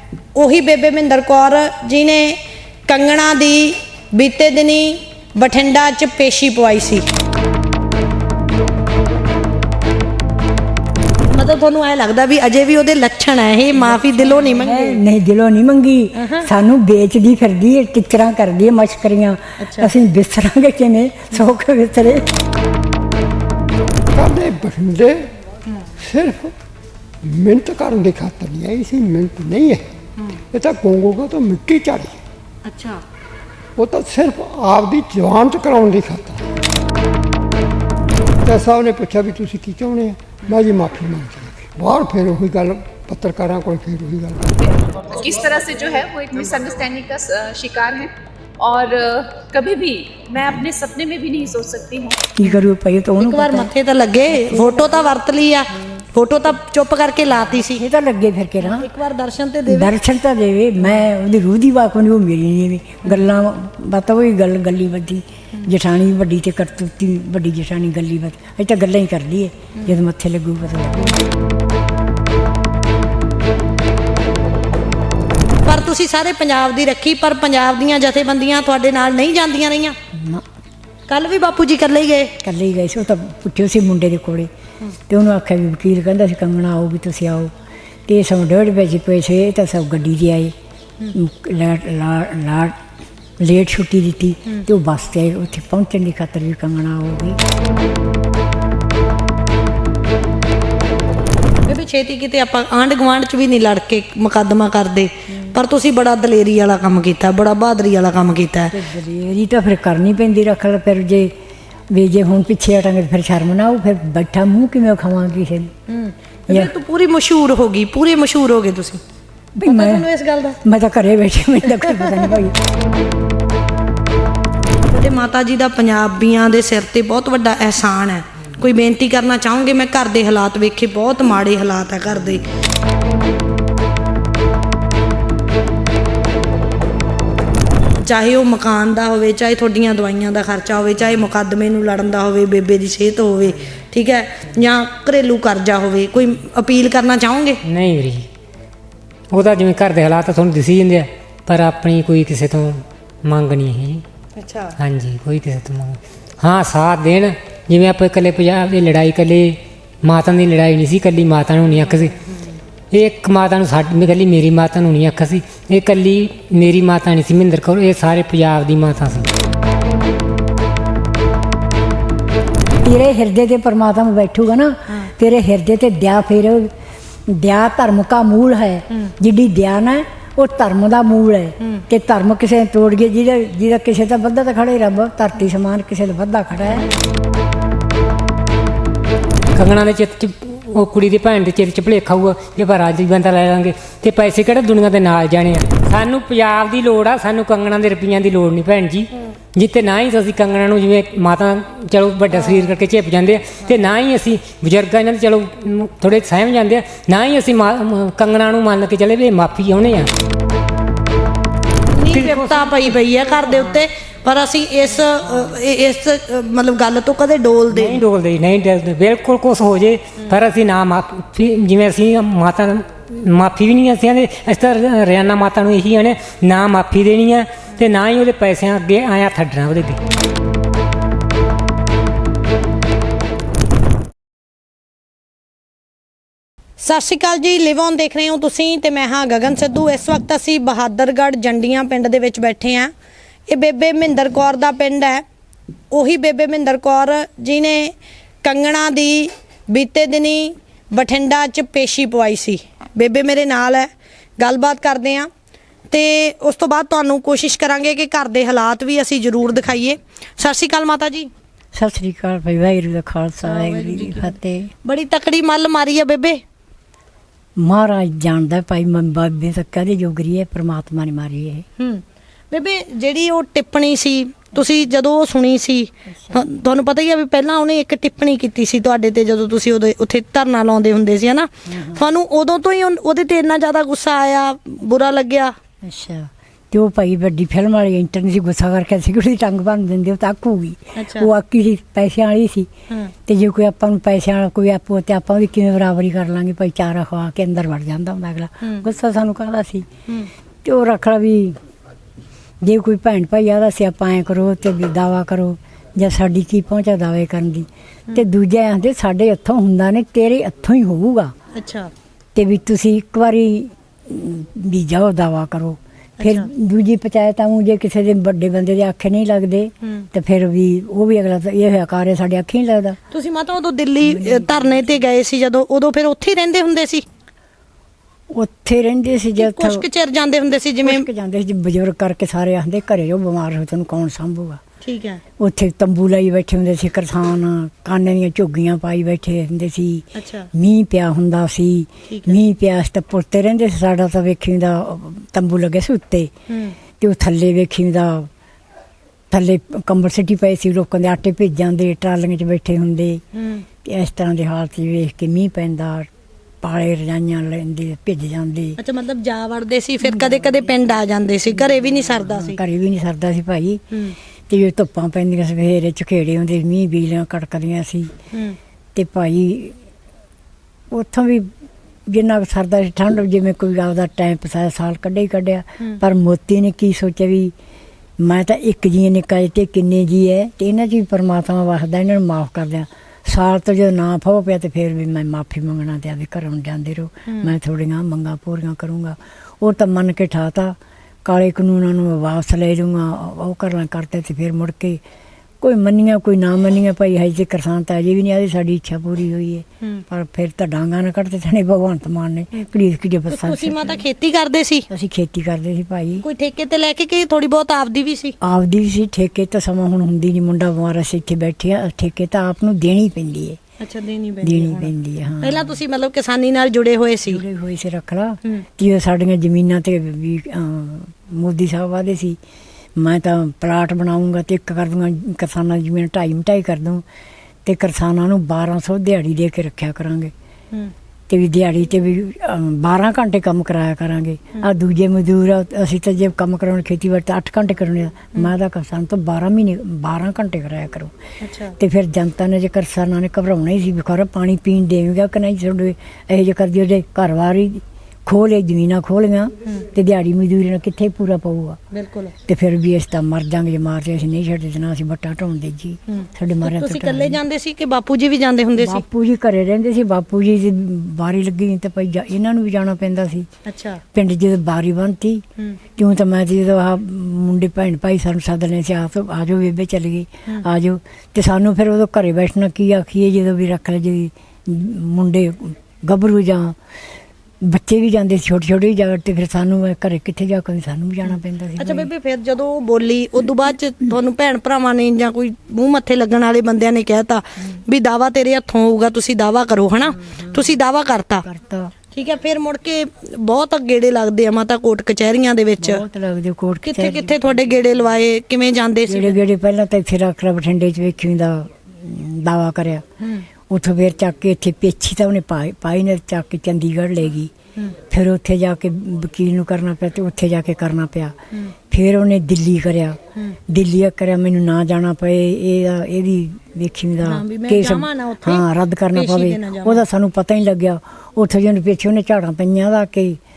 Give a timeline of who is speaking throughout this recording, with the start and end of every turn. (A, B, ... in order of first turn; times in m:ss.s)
0:00.3-0:07.0 A
0:11.2-0:15.0 A
0:13.8-0:22.4 B
0:16.2-0:16.5 A
0:19.6-0:19.9 A
0:24.1-0:25.3 C
0:26.0-0:26.5 C
0:27.2-0:29.9 C
0:30.5-0:32.2 C
0:32.6-0:33.0 A
0:33.8-0:36.4 C
0:38.4-0:44.8 C
0:44.8-0:52.2 D
0:52.3-0:53.7 B
0:53.2-0:57.8 A
0:54.3-0:55.1 B
0:57.6-0:58.9 B
0:58.6-0:59.9 A
0:59.7-1:11.2 B
1:15.6-1:20.0 A
1:20.1-1:20.4 B
1:21.1-1:22.4 A
1:22.4-1:24.5 B
1:25.1-1:27.5 B
1:28.1-1:30.5 B
1:31.1-1:32.8 B
1:33.4-1:37.4 B
1:41.6-1:48.7 A
1:45.3-1:45.6 B
1:48.7-1:51.3 B
1:51.9-1:55.7 B
1:55.9-1:59.0 A
1:59.6-2:00.1 B
1:59.6-2:00.6 A
2:00.6-2:02.6 B
2:01.7-2:02.2 A
2:04.9-2:12.5 A
2:18.0-2:27.6 A
2:27.6-2:28.3 E
2:29.3-2:34.0 E
2:34.4-2:34.8 A
2:34.8-2:42.1 E
2:41.7-2:42.6 A
2:42.9-2:49.3 E
2:52.8-2:56.7 B
2:57.3-3:06.9 B
3:01.6-3:01.8 A
3:09.5-3:30.1 E
3:22.3-3:22.7 A
3:31.9-3:38.0 A
3:32.1-3:33.8 E
3:35.3-3:35.5 E
3:37.7-3:50.0 E
3:56.8-4:02.9 A
4:03.5-4:05.2 A
4:05.9-4:13.9 A
4:14.4-4:15.3 A
4:15.9-4:21.3 A
4:21.7-4:24.7 B
4:23.4-4:26.4 A
4:27.6-4:31.6 B
4:31.8-4:45.5 A
4:36.1-4:36.4 B
4:41.7-4:42.0 B
4:45.8-4:52.7 B
4:50.9-4:51.3 A
4:53.2-4:59.9 B
4:58.6-4:58.9 A
5:00.6-5:01.6 B
5:02.6-5:11.3 B
5:11.5-5:11.9 A
5:12.3-5:23.0 B
5:16.2-5:16.5 A
5:19.8-5:20.1 A
5:23.1-5:27.0 A
5:24.0-5:24.9 B
5:28.3-5:29.9 B
5:29.4-5:31.0 A
5:30.8-5:34.6 B
5:34.8-5:35.2 A
5:35.4-5:46.3 B
5:40.1-5:40.5 A
5:42.1-5:42.4 A
5:46.5-5:46.8 A
5:47.0-5:48.3 B
5:49.3-5:53.2 B
5:53.3-5:53.6 A
5:53.8-5:56.1 B
5:56.6-5:58.8 B
5:58.8-6:02.6 A
6:00.0-6:00.8 B
6:01.5-6:03.8 B
6:03.9-6:04.2 A
6:04.5-6:08.1 B
6:08.3-6:08.6 A
6:08.9-6:09.8 B
6:10.9-6:11.5 B
6:12.1-6:17.5 B
6:18.2-6:35.0 B
6:27.3-6:27.5 A
6:35.6-6:44.0 B
6:43.3-6:44.9 A
6:44.9-6:46.2 B
6:46.2-6:48.4 A
6:48.4-6:53.6 B
6:53.8-6:57.4 A
6:54.4-6:55.7 B
6:57.2-7:02.4 B
7:03.0-7:07.0 B
7:07.6-7:10.3 B
7:11.3-7:21.1 B
7:21.4-7:21.8 A
7:21.8-7:31.8 B
7:31.9-7:32.3 A
7:32.4-7:37.4 B
7:36.1-7:39.0 A
7:38.8-7:43.5 B
7:43.6-7:44.0 A
7:44.1-7:45.4 B
7:46.0-7:56.8 B
7:57.6-8:02.1 B
8:01.8-8:11.4 A
8:10.0-8:10.8 B
8:11.4-8:11.9 B
8:12.1-8:16.0 A
8:15.8-8:17.8 B
8:16.8-8:19.4 A
8:19.1-8:23.0 B
8:23.2-8:23.5 A
8:23.7-8:27.5 B
8:28.1-8:31.4 B
8:31.9-8:43.4 B
8:37.2-8:40.0 A